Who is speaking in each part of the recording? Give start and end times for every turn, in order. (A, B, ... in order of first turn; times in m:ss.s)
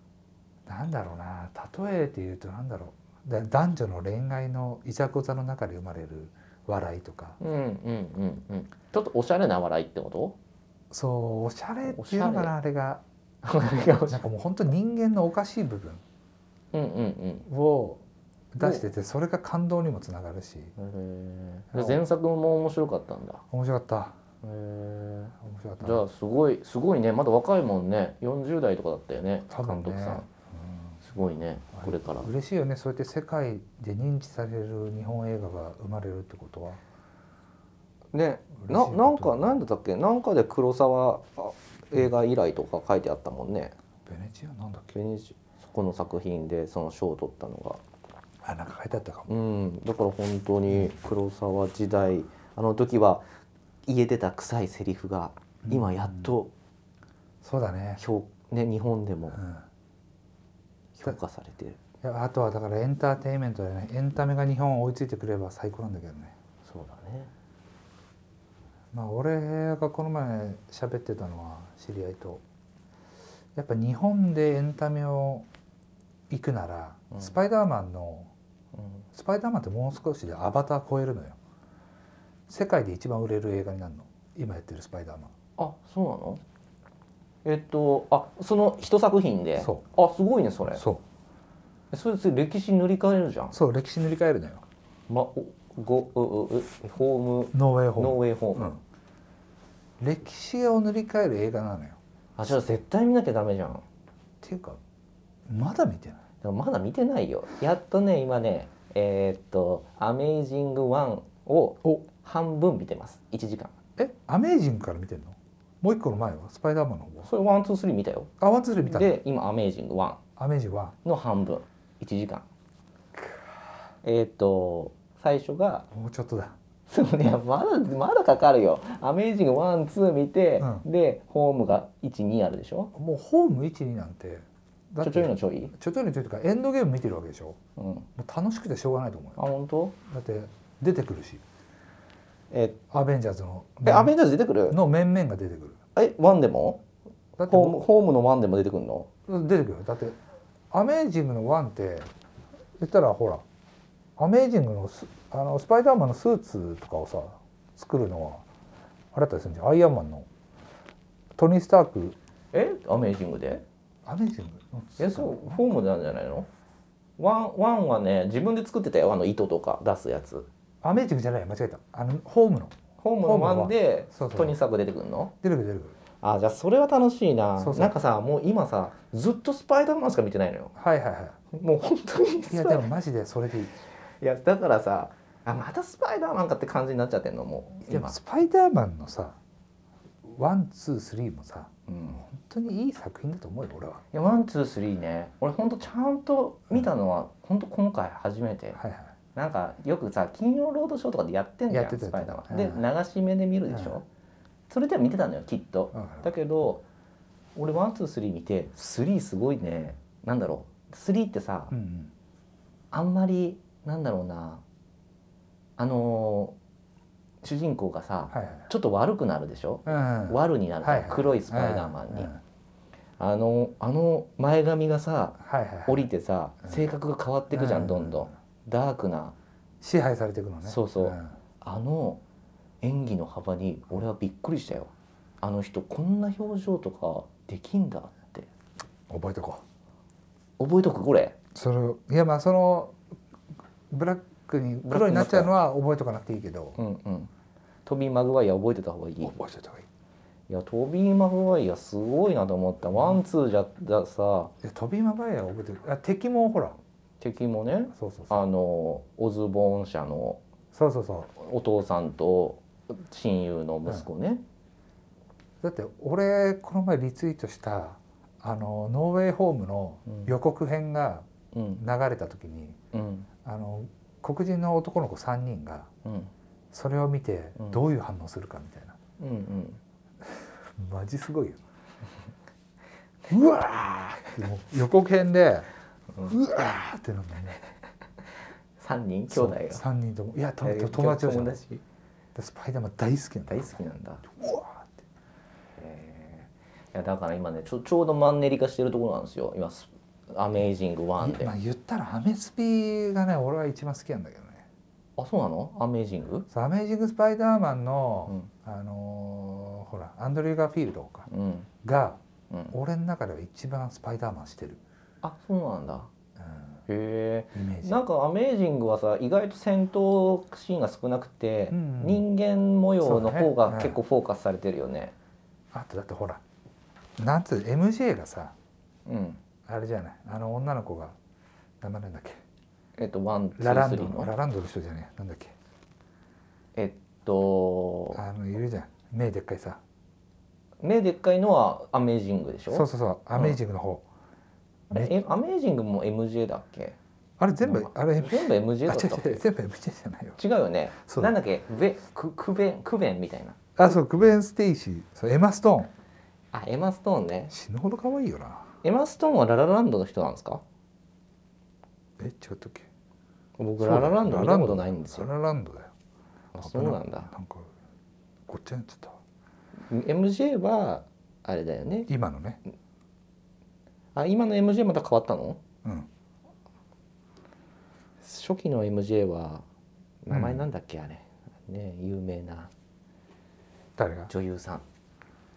0:00.6-0:07.4 A
0:07.4-0:10.4 B
0:10.9-0:13.0 A
0:11.8-0:12.5 B
0:13.4-0:14.2 B
0:14.1-0:16.0 A
0:16.7-0:17.5 B
0:17.5-0:20.7 A
0:18.6-0:18.8 B
0:20.8-0:23.4 B
0:21.7-0:22.0 A
0:23.5-0:24.2 A
0:24.4-0:30.3 B
0:25.4-0:26.0 A
0:29.5-0:31.0 A
0:31.0-0:32.3 B
0:31.7-0:36.8 A
0:38.1-0:43.7 B
0:38.6-0:39.6 A
0:44.0-0:44.9 A
0:44.9-0:47.8 B
0:48.4-0:49.3 A
0:49.3-0:53.3 B
0:53.8-0:56.5 B
0:55.6-0:56.3 A
0:57.4-0:58.0 A
0:58.0-0:59.4 B
0:59.3-0:59.6 A
1:01.0-1:01.8 B
1:02.0-1:06.3 A
1:06.6-1:07.3 B
1:08.9-1:12.4 A
1:13.6-1:15.5 A
1:16.3-1:18.3 A
1:18.7-1:19.0 B
1:19.1-1:21.4 A
1:22.5-1:25.3 A
1:25.6-1:26.4 B
1:27.4-1:30.8 B
1:29.6-1:29.8 A
1:30.7-1:31.0 A
1:31.9-1:33.6 B
1:33.5-1:34.6 A
1:35.1-1:38.8 B
1:37.5-1:38.8 A
1:40.0-1:42.0 A
1:42.4-1:43.8 B
1:44.4-1:44.8 A
1:45.5-1:46.2 A
1:46.4-1:53.7 B
1:54.0-1:57.3 A
1:57.2-1:58.3 B
1:58.4-1:59.2 A
1:58.8-2:00.2 B
2:00.4-2:01.0 A
2:01.0-2:02.4 B
2:04.0-2:05.8 B
2:05.9-2:06.6 A
2:06.9-2:12.9 B
2:10.6-2:10.8 A
2:12.9-2:17.6 A
2:15.0-2:15.7 B
2:17.8-2:18.1 B
2:18.1-2:19.4 A
2:19.4-2:19.9 B
2:20.0-2:21.4 A
2:22.5-2:22.8 B
2:22.9-2:24.1 A
2:23.8-2:24.8 B
2:24.7-2:25.8 A
2:26.0-2:26.8 B
2:27.4-2:27.8 A
2:27.4-2:29.1 B
2:29.3-2:30.2 A
2:30.7-2:32.1 A
2:32.8-2:33.4 A
2:34.2-2:38.4 A
2:39.1-2:40.3 A
2:41.4-2:42.2 A
2:42.5-2:43.6 B
2:44.0-2:45.6 A
2:45.0-2:46.5 B
2:47.2-2:50.5 B
2:50.8-2:54.6 A
2:53.0-2:55.3 B
2:55.4-2:56.0 A
2:56.2-3:00.7 B
2:57.6-2:58.0 A
3:00.7-3:01.4 A
3:01.5-3:02.9 B
3:02.5-3:03.8 A
3:04.2-3:08.2 B
3:07.9-3:09.4 A
3:10.2-3:14.0 A
3:11.9-3:12.2 B
3:14.1-3:18.8 B
3:18.8-3:19.1 A
3:19.3-3:24.0 B
3:21.7-3:22.8 A
3:23.7-3:24.0 A
3:24.7-3:26.8 B
3:25.9-3:26.3 A
3:27.6-3:31.7 B
3:31.7-3:32.1 A
3:32.9-3:34.6 B
3:35.8-3:36.6 B
3:37.4-3:42.3 B
3:38.3-3:38.7 A
3:39.8-3:42.4 A
3:43.2-3:49.3 B
3:45.4-3:46.0 A
3:47.5-3:48.3 A
3:49.8-3:51.4 A
3:50.6-3:52.2 B
3:52.8-3:58.5 B
3:59.1-3:59.6 A
4:00.6-4:01.4 B
4:01.5-4:03.0 A
4:03.9-4:06.8 A
4:04.8-4:05.5 B
4:06.8-4:07.3 B
4:07.8-4:09.4 B
4:09.2-4:09.9 A
4:10.5-4:14.5 B
4:14.6-4:16.8 A
4:17.2-4:20.4 B
4:17.9-4:18.4 A
4:20.7-4:21.3 A
4:21.4-4:24.4 B
4:25.6-4:31.2 A
4:30.0-4:30.3 B
4:31.5-4:31.8 B
4:31.8-4:32.8 A
4:32.9-4:33.3 B
4:33.4-4:35.9 A
4:36.0-4:36.3 B
4:36.7-4:39.0 A
4:39.2-4:39.8 B
4:40.2-4:41.6 A
4:43.2-4:44.4 B
4:44.3-4:45.7 A
4:46.3-4:47.6 A
4:48.8-4:49.8 B
4:49.3-4:51.6 A
4:50.6-4:51.8 B
4:52.3-4:55.0 A
4:53.5-4:54.2 B
4:55.8-5:01.5 B
5:01.2-5:04.6 A
5:05.2-5:06.5 B
5:06.5-5:11.3 A
5:11.3-5:11.7 B
5:11.8-5:14.8 A
5:15.2-5:16.1 B
5:16.4-5:16.8 A
5:16.9-5:25.1 B
5:17.5-5:18.0 A
5:21.7-5:22.2 A
5:23.0-5:24.0 A
5:25.7-5:26.4 A
5:27.2-5:28.5 A
5:29.0-5:29.4 B
5:29.6-5:31.2 A
5:31.8-5:32.4 A
5:33.0-5:34.3 B
5:33.6-5:35.5 A
5:36.8-5:38.2 B
5:38.1-5:39.8 A
5:40.8-5:43.6 B
5:42.7-5:44.0 A
5:44.9-5:47.0 B
5:47.4-5:50.4 A
5:47.6-5:49.4 B
5:50.4-5:53.6 B
5:51.0-5:51.3 A
5:53.8-5:55.9 A
5:56.5-5:57.5 B
5:57.5-5:58.7 A
5:58.8-6:00.6 B
6:02.2-6:02.9 A
6:03.6-6:05.3 B
6:03.8-6:05.9 A
6:06.5-6:07.3 B
6:06.6-6:07.7 A
6:08.5-6:09.2 A
6:09.8-6:12.1 B
6:12.1-6:12.6 A
6:14.1-6:15.6 B
6:15.8-6:16.1 A
6:18.2-6:19.6 B
6:20.2-6:22.7 B
6:20.3-6:20.6 A
6:24.0-6:24.3 A
6:24.3-6:24.8 B